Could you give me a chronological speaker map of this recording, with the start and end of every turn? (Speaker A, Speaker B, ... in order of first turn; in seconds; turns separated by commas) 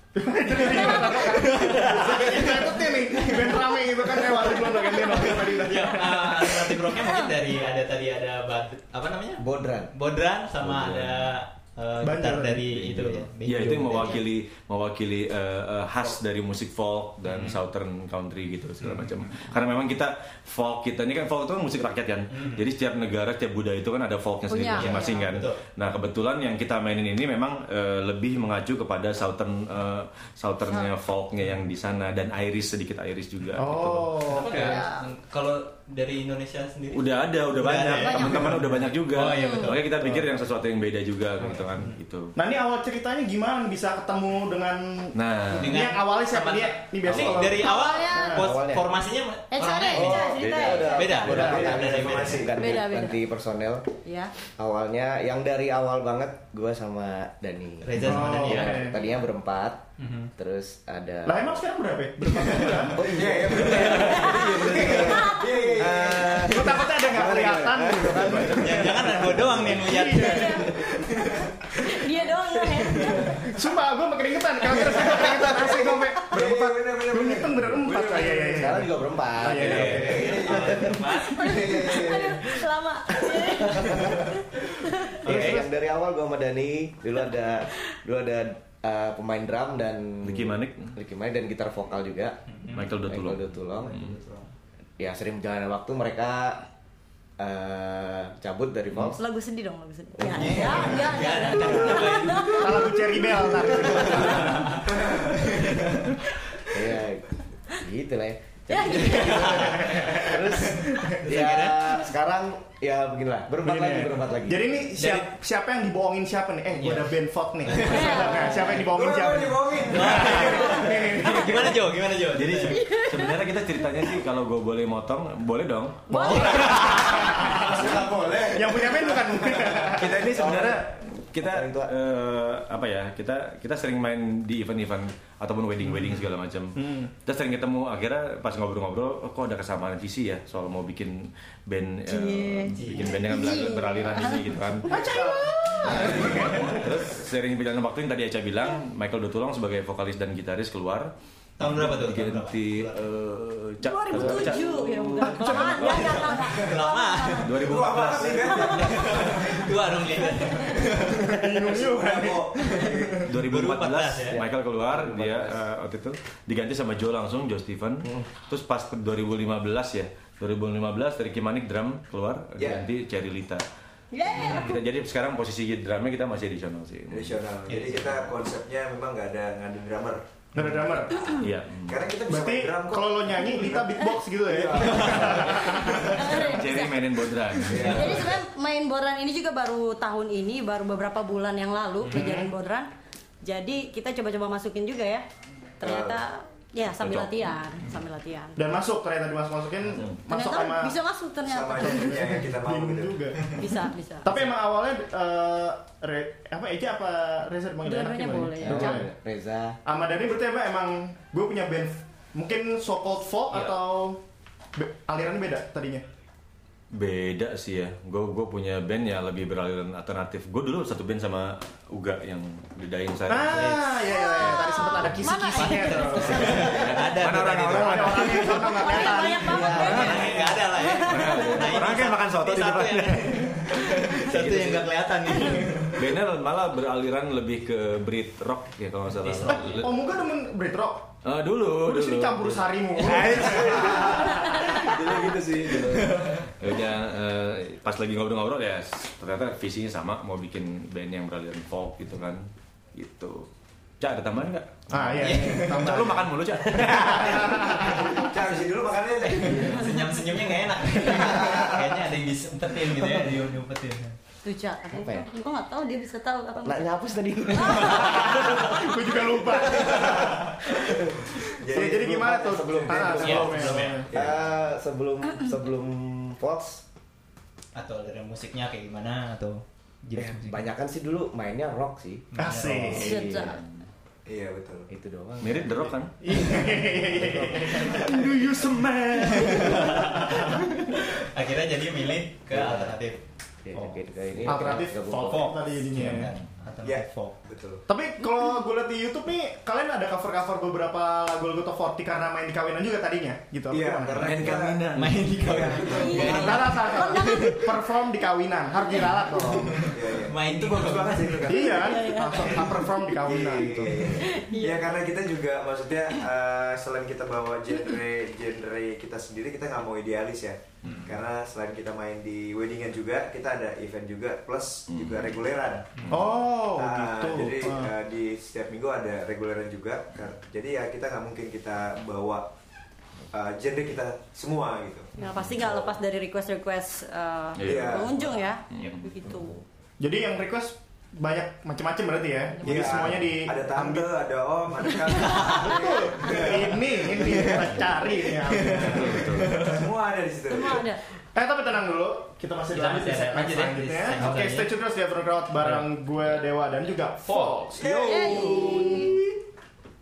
Speaker A: 0.1-6.8, Speaker B: 0.5-14.2, Speaker C: 9.4-9.9, Speaker D: 10.6-11.4, Speaker A: 12.0-12.7, Speaker D: 12.7-34.7, Speaker B: 17.2-17.6, Speaker B: 18.8-19.1, Speaker B: 22.3-22.6, Speaker E: 24.5-25.3, Speaker B: 24.8-25.6, Speaker A: 33.5-34.9, Speaker B: 34.3-39.9, Speaker D: 36.9-42.3, Speaker E: 39.3-39.7, Speaker B: 41.4-42.0, Speaker A: 42.4-48.4, Speaker D: 45.1-45.8, Speaker B: 45.5-50.3, Speaker D: 47.0-47.5, Speaker E: 47.6-48.4, Speaker C: 48.4-49.0, Speaker E: 49.5-51.6, Speaker C: 49.9-53.9, Speaker D: 50.2-50.9, Speaker B: 50.8-52.5, Speaker F: 51.2-52.7, Speaker A: 51.3-51.6, Speaker E: 52.6-53.2, Speaker E: 54.0-54.3, Speaker C: 54.5-59.8, Speaker B: 57.8-58.9, Speaker A: 57.9-59.0, Speaker D: 58.1-58.8, Speaker B: 60.0-60.3, Speaker C: 60.4-61.5, Speaker A: 61.2-63.2, Speaker B: 62.4-62.9, Speaker C: 62.9-69.8, Speaker F: 63.1-66.9, Speaker B: 63.5-64.0, Speaker E: 64.1-64.5, Speaker B: 64.6-64.9, Speaker E: 65.0-65.6, Speaker A: 66.4-70.7, Speaker B: 68.5-71.1, Speaker E: 70.1-70.7, Speaker E: 71.8-73.3, Speaker B: 72.9-73.4, Speaker A: 73.4-80.5, Speaker F: 74.8-78.9, Speaker C: 78.5-81.1, Speaker D: 79.6-80.1, Speaker B: 79.6-81.8, Speaker F: 79.7-82.5, Speaker E: 81.2-85.3, Speaker C: 83.3-84.3, Speaker B: 83.6-84.1, Speaker B: 85.2-85.6, Speaker C: 85.2-92.4, Speaker A: 85.3-85.6, Speaker D: 90.2-90.9, Speaker B: 92.5-93.0, Speaker D: 92.7-94.2, Speaker C: 93.0-94.1, Speaker B: 93.8-94.5, Speaker C: 95.0-96.6, Speaker C: 97.4-99.2, Speaker E: 99.2-103.7, Speaker C: 100.2-101.0, Speaker B: 100.3-106.3, Speaker A: 102.5-104.8, Speaker F: 104.8-105.5, Speaker C: 106.7-114.7, Speaker E: 108.7-110.7, Speaker B: 108.9-112.0, Speaker A: 113.6-121.7, Speaker B: 114.9-115.3, Speaker B: 116.8-118.2, Speaker E: 118.0-118.7, Speaker F: 118.7-121.7, Speaker B: 119.9-122.8, Speaker D: 122.3-127.0, Speaker E: 122.8-123.5, Speaker E: 126.1-127.5, Speaker B: 126.1-127.6, Speaker A: 127.0-127.9, Speaker F: 127.4-130.8, Speaker C: 127.6-130.9, Speaker A: 128.5-130.3, Speaker D: 129.9-144.9, Speaker C: 131.4-131.9, Speaker A: 136.8-137.1, Speaker E: 142.1-144.5, Speaker B: 142.7-143.1, Speaker A: 144.9-146.9, Speaker F: 144.9-146.7, Speaker D: 145.8-156.6, Speaker B: 151.6-153.1, Speaker E: 153.8-157.7, Speaker A: 155.2-156.0, Speaker B: 155.8-157.5, Speaker D: 157.4-159.1, Speaker F: 157.6-160.1, Speaker E: 158.5-159.1, Speaker B: 158.7-161.6, Speaker E: 160.2-160.8, Speaker A: 161.1-163.3, Speaker F: 161.4-163.3, Speaker B: 162.6-164.4, Speaker D: 163.2-173.6, Speaker C: 164.9-165.6, Speaker F: 172.6-172.9, Speaker E: 174.1-174.8, Speaker D: 174.3-177.4, Speaker F: 177.1-180.2, Speaker B: 177.7-178.2, Speaker A: 180.6-181.2, Speaker E: 181.1-181.5, Speaker D: 181.4-182.0, Speaker F: 181.9-186.4, Speaker A: 182.3-186.1, Speaker B: 184.8-185.4, Speaker E: 185.7-187.1, Speaker D: 186.1-188.3, Speaker F: 187.7-188.3, Speaker E: 187.8-192.9, Speaker A: 192.1-192.5, Speaker E: 193.4-195.2, Speaker E: 195.8-198.6, Speaker F: 195.8-196.2, Speaker D: 197.0-197.6, Speaker A: 198.6-200.9, Speaker E: 200.3-202.2, Speaker F: 201.4-203.4, Speaker A: 201.8-203.6, Speaker E: 203.5-204.3, Speaker A: 204.2-209.1, Speaker E: 207.8-209.1, Speaker C: 208.6-209.8, Speaker A: 209.8-214.2, Speaker A: 214.8-216.1, Speaker D: 216.9-223.8, Speaker A: 223.3-226.6, Speaker B: 223.5-223.9, Speaker E: 224.0-227.2, Speaker B: 225.5-236.1, Speaker D: 226.2-228.6, Speaker A: 227.7-229.9, Speaker E: 228.7-231.9, Speaker C: 229.4-230.3, Speaker D: 229.7-240.0, Speaker B: 239.1-239.8, Speaker A: 239.7-241.1, Speaker D: 241.2-253.5, Speaker A: 241.8-244.7, Speaker F: 243.3-246.1, Speaker E: 244.4-244.8, Speaker D: 254.0-257.9, Speaker A: 254.9-258.1, Speaker B: 255.2-255.9, Speaker B: 257.6-258.4, Speaker F: 257.8-259.9, Speaker B: 259.2-264.1, Speaker F: 261.0-261.9, Speaker E: 264.4-266.9, Speaker C: 264.9-265.3, Speaker C: 266.6-268.4, Speaker E: 267.5-268.6, Speaker A: 268.0-270.6, Speaker F: 269.8-270.5, Speaker F: 271.4-274.5, Speaker A: 271.6-274.1, Speaker C: 271.8-276.8, Speaker B: 273.2-274.1, Speaker B: 277.8-280.6, Speaker C: 280.2-282.3, Speaker B: 282.3-283.1, Speaker A: 282.4-283.1, Speaker C: 282.9-283.6, Speaker E: 282.9-283.6, Speaker F: 284.2-284.9, Speaker C: 284.9-285.9, Speaker D: 285.4-286.1, Speaker A: 286.2-290.7, Speaker B: 286.3-286.9, Speaker C: 287.1-287.7, Speaker D: 288.0-289.9, Speaker B: 289.3-293.2, Speaker C: 292.5-293.0, Speaker C: 293.6-295.6, Speaker A: 294.4-296.3, Speaker B: 295.3-297.4, Speaker F: 296.8-297.9, Speaker A: 297.9-304.6, Speaker F: 303.7-306.5, Speaker D: 304.1-306.0, Speaker B: 304.9-307.6, Speaker E: 305.8-307.7, Speaker A: 306.1-309.9, Speaker B: 309.3-311.8, Speaker F: 309.9-312.0, Speaker A: 311.5-314.2, Speaker E: 311.8-312.6, Speaker F: 313.2-326.0, Speaker E: 314.2-315.1, Speaker D: 320.8-321.1, Speaker D: 324.9-325.4, Speaker A: 326.1-327.9, Speaker F: 326.7-332.5, Speaker F: 333.3-335.9, Speaker E: 335.2-339.6, Speaker D: 335.3-335.7, Speaker D: 337.6-339.6, Speaker F: 337.6-338.3, Speaker A: 340.0-344.1, Speaker F: 342.6-347.5, Speaker E: 345.1-345.5, Speaker B: 345.2-345.7, Speaker A: 345.5-349.3, Speaker B: 346.2-349.8, Speaker D: 348.6-349.8, Speaker F: 349.6-350.9, Speaker E: 350.5-351.0, Speaker A: 351.4-359.2, Speaker B: 352.7-354.7, Speaker B: 355.6-355.9, Speaker B: 357.2-357.8, Speaker F: 357.8-358.9, Speaker E: 358.0-359.2